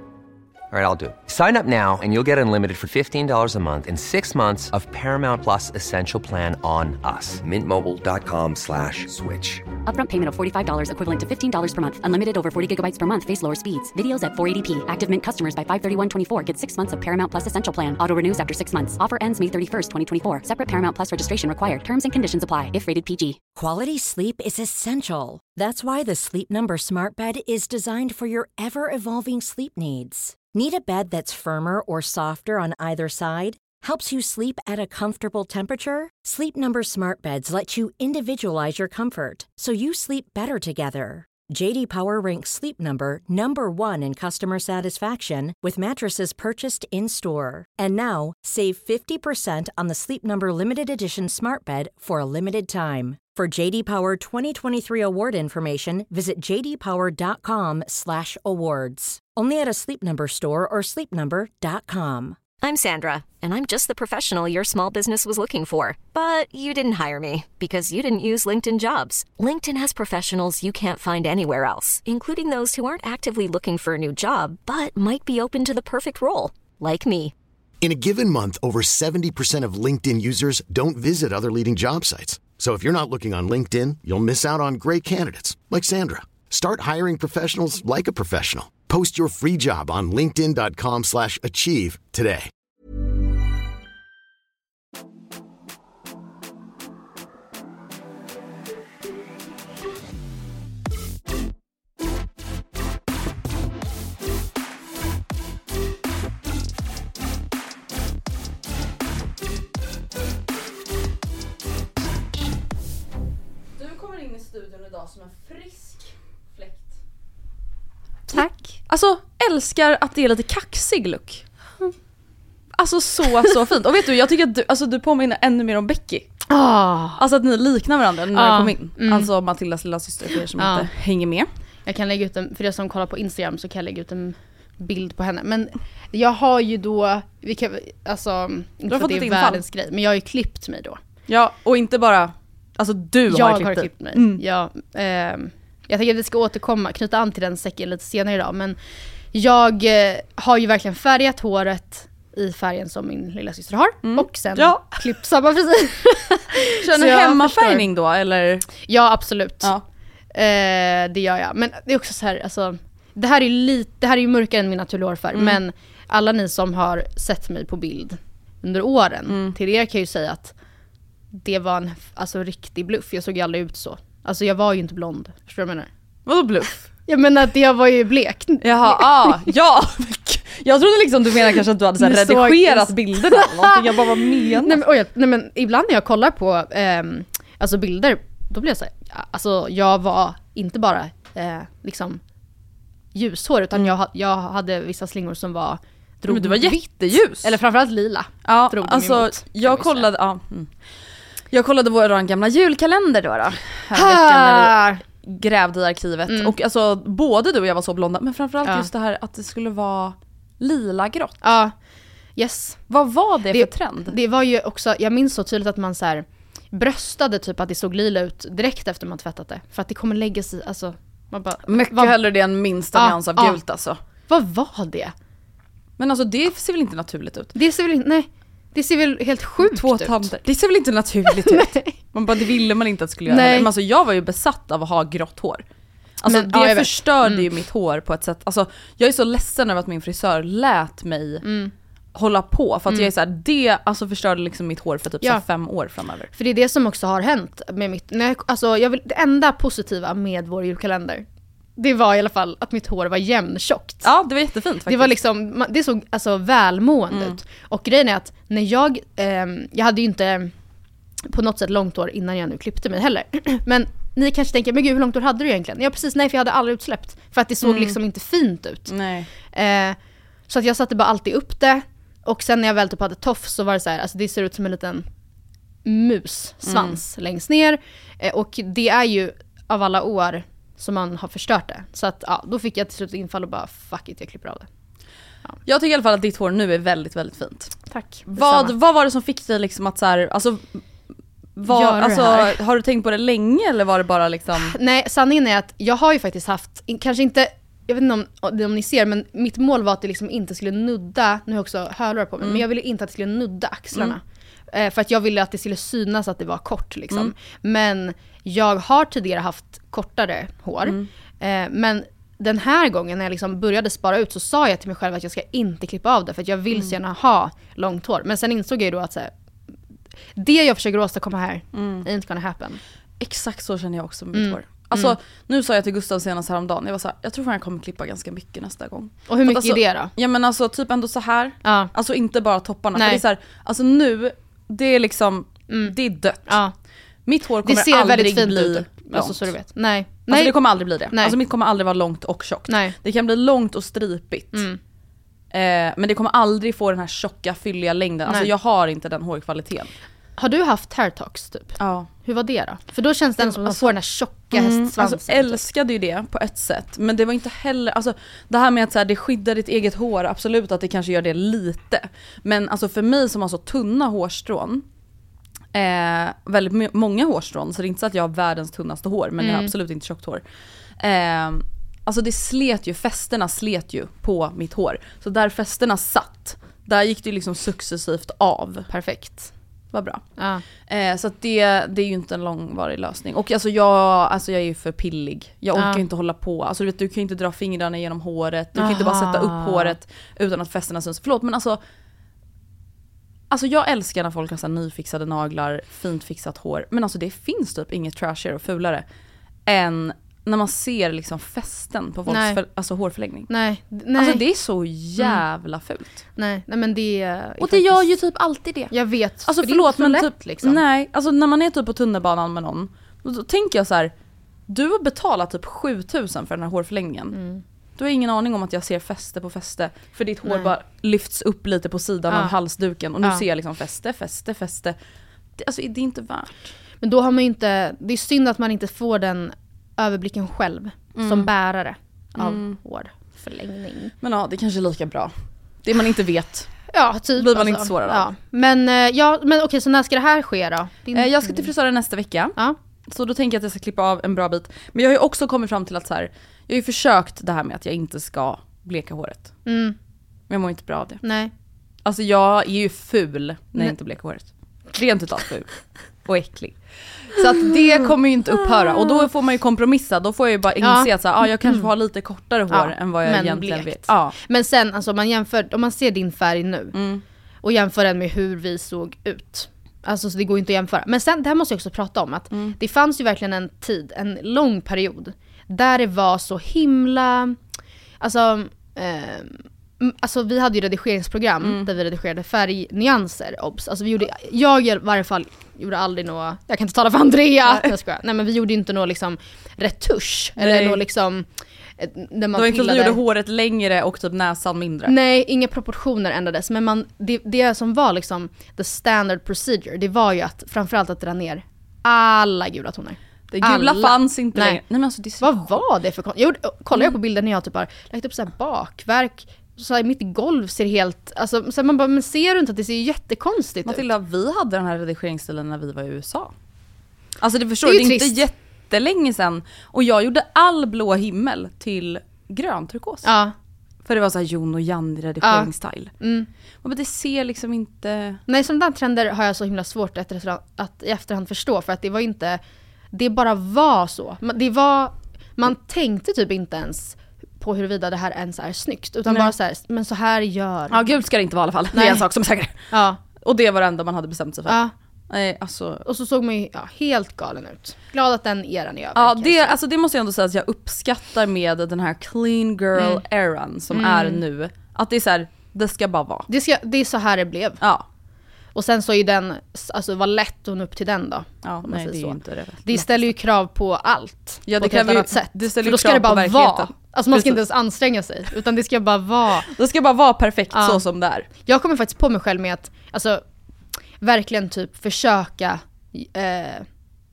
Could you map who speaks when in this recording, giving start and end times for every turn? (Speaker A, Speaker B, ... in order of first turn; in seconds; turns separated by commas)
Speaker A: 0.7-9.6, Speaker B: 9.9-23.4, Speaker C: 23.6-62.4, Speaker D: 62.6-77.3, Speaker E: 77.8-92.5, Speaker F: 113.8-117.0, Speaker G: 118.3-118.8, Speaker F: 118.3-121.5, Speaker F: 122.8-126.3, Speaker G: 126.5-127.2, Speaker F: 127.2-131.5, Speaker G: 128.3-129.3, Speaker G: 130.6-130.9, Speaker G: 131.9-141.0, Speaker F: 138.9-139.6, Speaker F: 141.3-144.4, Speaker G: 143.3-148.8, Speaker G: 149.3-157.8, Speaker F: 154.0-155.0, Speaker F: 156.8-158.7, Speaker G: 158.8-159.7, Speaker G: 160.3-170.5, Speaker F: 165.3-165.6, Speaker F: 169.3-169.5, Speaker G: 171.3-175.9, Speaker F: 176.3-176.8, Speaker G: 177.1-179.5, Speaker F: 178.6-184.8, Speaker G: 182.0-184.0, Speaker G: 184.5-192.2, Speaker G: 193.1-200.1, Speaker F: 196.3-197.5, Speaker F: 198.4-200.7, Speaker F: 201.5-211.4, Speaker G: 203.9-205.0, Speaker G: 206.3-206.5, Speaker G: 211.4-211.8, Speaker G: 212.4-212.8, Speaker F: 212.9-214.2, Speaker G: 213.5-222.2, Speaker F: 221.7-224.0, Speaker G: 222.9-223.6, Speaker G: 224.3-225.1, Speaker F: 226.0-227.5, Speaker G: 227.6-230.3, Speaker F: 229.6-235.6, Speaker G: 231.3-232.0, Speaker G: 233.3-233.7, Speaker F: 236.2-241.5, Speaker G: 236.3-237.5, Speaker G: 241.4-241.7, Speaker F: 242.2-246.3, Speaker G: 246.3-251.2, Speaker G: 251.8-254.1, Speaker F: 254.0-255.1, Speaker G: 254.9-260.5, Speaker F: 257.1-257.4, Speaker G: 261.2-270.0, Speaker F: 267.6-268.0, Speaker F: 268.9-269.3, Speaker G: 270.5-275.1, Speaker G: 275.9-284.7, Speaker F: 276.7-277.0, Speaker F: 285.7-287.8, Speaker G: 287.9-288.7, Speaker F: 288.3-290.6, Speaker F: 291.6-294.8, Speaker G: 291.7-292.6, Speaker G: 294.6-304.2, Speaker G: 304.7-319.3, Speaker G: 320.4-322.8, Speaker F: 321.8-322.1, Speaker F: 323.2-336.6, Speaker G: 324.4-325.1, Speaker G: 329.3-330.1, Speaker G: 331.6-331.9, Speaker G: 332.9-333.2, Speaker G: 335.7-335.9, Speaker G: 336.5-336.7, Speaker F: 337.3-339.5, Speaker G: 337.6-341.4, Speaker F: 340.3-344.6, Speaker G: 342.7-343.0, Speaker G: 344.5-344.8, Speaker F: 345.5-349.9, Speaker G: 350.4-355.6, Speaker F: 351.8-352.1, Speaker F: 353.4-364.9, Speaker F: 365.7-370.4, Speaker G: 369.4-369.7, Speaker F: 371.0-378.9, Speaker G: 378.9-379.5, Speaker F: 379.9-380.2, Speaker G: 380.4-380.6, Speaker F: 380.9-391.8, Speaker G: 385.8-386.0, Speaker G: 388.8-389.9, Speaker F: 393.5-399.1, Speaker F: 399.7-403.5, Speaker G: 402.3-402.6, Speaker G: 403.5-404.4, Speaker F: 404.1-406.2, Speaker G: 406.4-408.0, Speaker F: 407.6-408.9, Speaker G: 408.9-410.8, Speaker F: 409.5-414.1, Speaker F: 414.7-417.4, Speaker G: 417.3-417.6, Speaker F: 418.0-425.0, Speaker G: 420.5-420.7, Speaker G: 422.3-422.6, Speaker F: 425.6-426.7, Speaker G: 427.0-434.1, Speaker F: 431.2-431.5, Speaker F: 432.4-432.8, Speaker F: 434.2-435.3, Speaker F: 435.8-436.9, Speaker G: 436.9-441.7, Speaker F: 437.4-438.3, Speaker F: 441.1-442.6, Speaker F: 443.1-449.6, Speaker G: 449.7-450.0, Speaker F: 450.5-451.2, Speaker G: 451.2-451.5, Speaker F: 452.1-464.4, Speaker G: 460.8-461.9, Speaker G: 462.7-466.9, Speaker F: 466.9-467.2, Speaker G: 467.6-477.6, Speaker G: 478.2-493.2, Speaker F: 481.6-481.9, Speaker F: 490.6-491.0, Speaker F: 492.5-495.1, Speaker G: 495.1-504.8, Speaker F: 503.5-505.8, Speaker G: 505.4-514.0, Speaker F: 513.9-516.5, Speaker F: 517.4-523.3, Speaker G: 517.8-518.4, Speaker G: 523.2-523.5, Speaker F: 524.0-526.1, Speaker G: 525.4-526.5, Speaker F: 526.8-528.4, Speaker G: 528.5-532.6, Speaker G: 533.1-541.0, Speaker F: 539.3-539.5, Speaker F: 540.9-542.9, Speaker G: 541.9-542.2, Speaker G: 542.9-543.2, Speaker F: 543.4-546.0, Speaker G: 544.7-544.9, Speaker G: 546.0-549.8, Speaker F: 549.1-556.5, Speaker G: 553.0-553.2, Speaker G: 553.9-554.4, Speaker G: 556.5-557.8, Speaker G: 558.8-569.7, Speaker F: 561.6-563.3, Speaker F: 564.7-567.6, Speaker F: 569.8-571.5, Speaker G: 570.7-571.0, Speaker G: 571.7-573.4, Speaker G: 574.2-576.9